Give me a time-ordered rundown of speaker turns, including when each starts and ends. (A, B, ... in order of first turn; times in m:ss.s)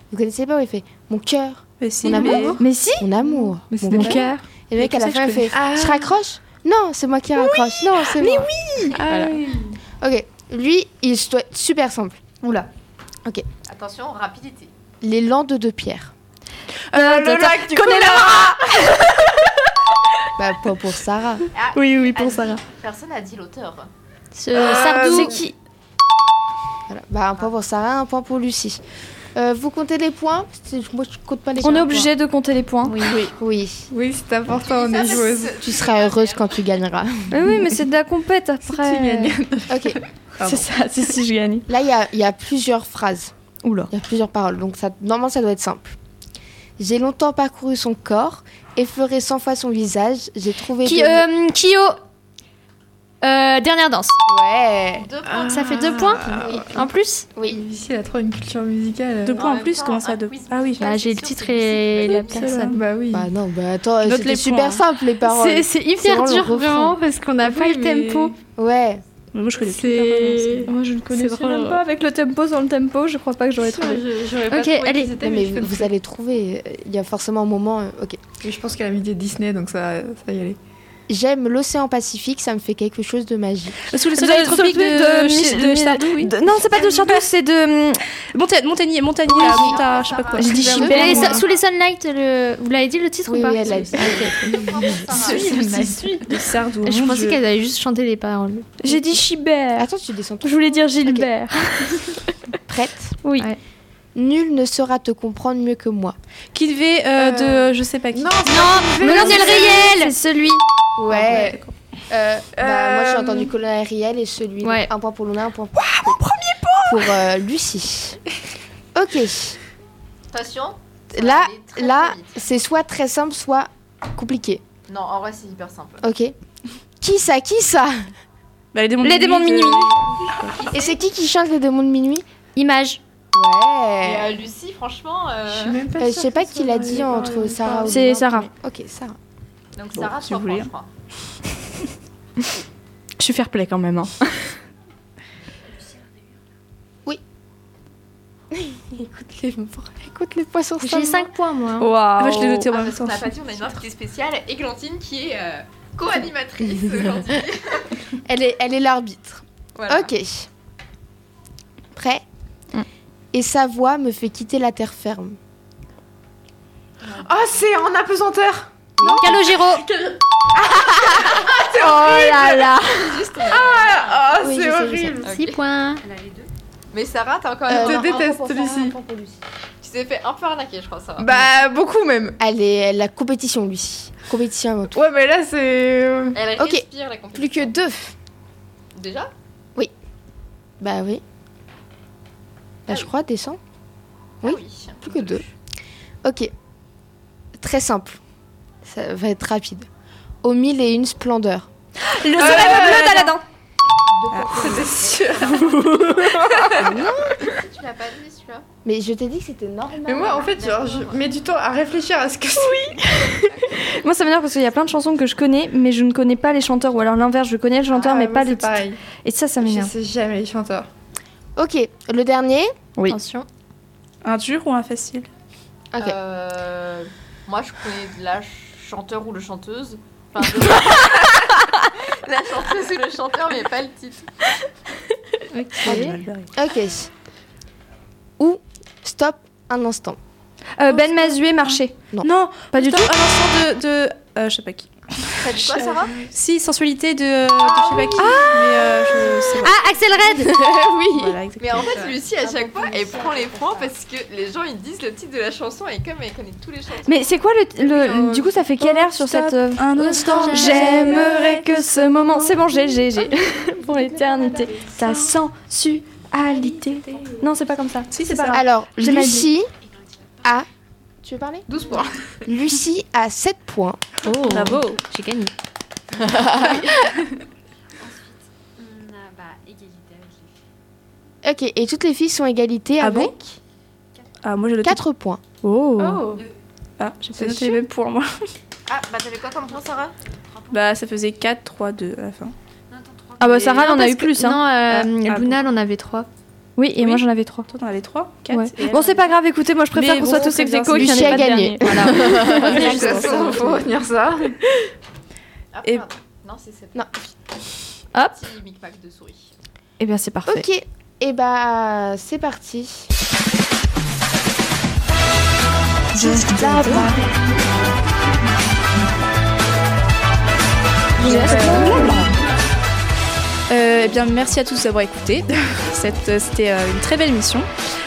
0:00.1-0:08.5 A
0:01.8-0:02.6 B
0:02.1-0:03.1 C
0:02.3-0:02.6 D
0:03.3-0:06.1 D
0:03.8-0:04.4 C
0:05.1-0:05.4 B
0:08.2-0:09.4 C
0:08.9-0:09.8 D
0:10.0-0:12.2 A
0:12.4-0:12.7 D
0:13.7-0:14.7 E
0:15.0-0:16.1 A
0:16.9-0:19.1 C
0:16.9-0:18.7 D
0:20.4-0:21.5 A
0:21.6-0:23.9 E
0:21.7-0:22.6 C
0:24.4-0:25.5 F
0:24.5-0:25.4 B
0:24.6-0:25.5 C
0:26.9-0:28.8 A
0:29.4-0:32.1 A
0:31.6-0:33.0 C
0:32.8-0:33.2 F
0:33.1-0:33.3 B
0:33.3-0:33.9 A
0:33.9-0:35.6 D
0:34.5-0:36.7 E
0:35.6-0:37.4 A
0:37.3-0:39.4 C
0:38.7-0:40.7 D
0:39.7-0:40.0 A
0:40.4-0:41.7 C
0:41.7-0:43.3 A
0:43.6-0:43.9 C
0:43.9-0:46.0 A
0:46.8-0:51.3 A
0:50.8-0:52.0 F
0:53.2-0:54.2 F
0:54.3-0:55.1 A
0:55.0-0:56.0 E
0:55.2-0:56.8 D
0:55.4-0:57.4 F
0:56.2-0:57.6 A
0:57.5-0:59.4 D
0:59.2-1:00.9 B
0:59.3-1:02.7 E
1:00.8-1:02.8 F
1:02.0-1:02.8 B
1:02.7-1:03.3 D
1:03.1-1:07.0 A
1:04.0-1:04.8 B
1:05.2-1:08.3 F
1:07.4-1:08.4 D
1:08.6-1:09.0 A
1:09.3-1:10.5 B
1:09.7-1:10.7 D
1:10.3-1:11.8 F
1:10.4-1:14.0 C
1:13.6-1:15.9 D
1:14.5-1:15.2 F
1:15.2-1:18.2 A
1:18.4-1:20.6 D
1:21.1-1:23.8 A
1:23.9-1:27.2 B
1:24.2-1:28.0 C
1:28.4-1:31.5 B
1:29.3-1:29.8 A
1:29.4-1:30.6 E
1:30.4-1:39.0 F
1:30.4-1:31.4 C
1:30.4-1:31.4 A
1:31.3-1:31.6 E
1:33.3-1:34.9 A
1:33.6-1:35.6 E
1:35.2-1:37.4 B
1:35.5-1:35.9 C
1:38.8-1:39.9 C
1:39.8-1:41.3 A
1:40.4-1:42.3 C
1:42.7-1:43.2 A
1:43.2-1:43.5 C
1:44.2-1:46.2 A
1:46.5-1:50.0 B
1:48.2-1:49.9 D
1:48.4-1:50.1 F
1:49.0-1:50.6 C
1:51.0-1:56.3 A
1:51.1-1:51.7 B
1:52.6-1:53.5 D
1:54.6-1:54.9 F
1:56.4-1:56.8 B
1:56.9-1:58.2 A
1:59.0-1:59.6 A
2:00.3-2:02.4 E
2:01.1-2:04.6 A
2:04.9-2:06.1 E
2:06.0-2:06.4 A
2:07.0-2:08.0 A
2:08.7-2:10.7 B
2:09.0-2:10.0 C
2:10.5-2:11.0 E
2:10.7-2:12.2 A
2:12.6-2:13.0 C
2:13.3-2:14.4 A
2:14.0-2:15.8 E
2:15.5-2:18.0 D
2:16.0-2:19.2 A
2:17.9-2:18.5 C
2:19.8-2:20.9 E
2:19.9-2:20.7 B
2:23.2-2:24.5 C
2:28.9-2:30.0 D
2:30.0-2:31.3 A
2:30.8-2:31.9 F
2:31.8-2:32.7 C
2:32.2-2:33.3 B
2:32.7-2:38.0 E
2:38.2-2:40.5 A
2:39.8-2:40.1 E
2:42.0-2:42.2 A
2:43.3-2:45.4 A
2:47.0-2:47.7 E
2:47.2-2:48.7 D
2:49.0-2:49.6 A
2:49.0-2:49.8 F
2:49.3-2:50.2 D
2:50.7-2:51.2 A
2:51.2-2:54.4 E
2:51.7-2:55.3 D
2:54.4-2:55.2 A
2:55.2-2:58.1 E
2:55.2-2:56.0 F
2:57.7-2:59.4 A
2:57.7-2:59.0 D
2:59.8-3:01.5 E
3:01.2-3:02.4 D
3:02.4-3:05.0 A
3:04.9-3:06.4 D
3:06.3-3:07.8 E
3:06.6-3:08.2 A
3:09.0-3:09.3 E
3:10.8-3:11.2 A
3:12.9-3:13.6 A
3:14.4-3:15.4 A
3:14.4-3:15.5 E
3:16.2-3:16.5 A
3:17.6-3:18.2 A
3:18.8-3:19.9 A
3:20.4-3:21.7 A
3:22.0-3:23.4 C
3:22.4-3:23.3 D
3:22.5-3:23.2 B
3:24.1-3:25.7 A
3:24.3-3:24.6 B
3:24.5-3:26.9 D
3:25.3-3:25.8 E
3:26.0-3:27.1 C
3:26.8-3:27.3 A
3:27.4-3:28.6 E
3:28.8-3:30.4 A
3:30.1-3:33.0 D
3:30.3-3:31.3 E
3:32.6-3:39.9 C
3:33.3-3:33.9 E
3:37.9-3:39.0 D
3:39.6-3:40.9 D
3:41.6-3:42.7 A
3:43.1-3:43.5 F
3:44.2-3:45.3 B
3:46.0-3:54.3 E
3:55.5-3:56.2 F
3:55.8-3:56.5 B
3:56.5-3:57.1 A
3:58.4-4:00.2 A
4:00.8-4:02.0 C
4:00.9-4:09.8 B
4:02.7-4:03.1 C
4:05.4-4:06.2 E
4:07.7-4:08.1 E
4:07.9-4:11.4 A
4:08.2-4:08.6 C
4:09.6-4:10.4 C
4:09.9-4:10.3 F
4:11.1-4:12.0 B
4:11.6-4:17.4 E
4:12.4-4:13.9 A
4:17.1-4:29.5 C
4:18.0-4:18.6 D
4:18.8-4:21.6 B
4:20.0-4:21.2 F
4:20.4-4:22.2 D
4:24.7-4:25.3 D
4:26.5-4:27.4 D
4:28.1-4:28.6 B
4:28.4-4:29.7 A
4:31.2-4:31.7 A
4:31.7-4:32.4 D
4:32.4-4:34.2 A
4:34.2-4:35.5 F
4:34.5-4:35.0 B
4:36.3-4:36.8 A
4:38.8-4:40.1 F
4:41.4-4:43.4 A
4:43.0-4:43.4 B
4:44.4-4:45.0 B
4:44.8-4:45.4 A
4:45.6-4:46.4 C
4:46.0-4:46.4 D
4:47.0-4:48.3 B
4:47.3-4:47.8 C
4:48.9-4:50.2 E
4:50.7-4:52.5 B
4:53.4-4:54.6 C
4:53.6-4:56.3 F
4:54.9-4:55.7 B
4:56.8-4:57.7 C
4:57.0-4:59.3 B
4:58.5-5:03.2 C
4:59.9-5:01.4 B
5:00.9-5:03.7 A
5:02.5-5:03.5 B
5:02.6-5:04.9 D
5:05.7-5:07.3 E
5:08.3-5:09.5 E
5:10.0-5:10.7 C
5:10.5-5:13.1 A
5:16.2-5:17.1 C
5:16.2-5:17.1 A
5:16.2-5:17.3 B
5:21.2-5:22.3 A
5:21.2-5:22.0 C
5:21.2-5:22.2 B
5:23.7-5:27.7 B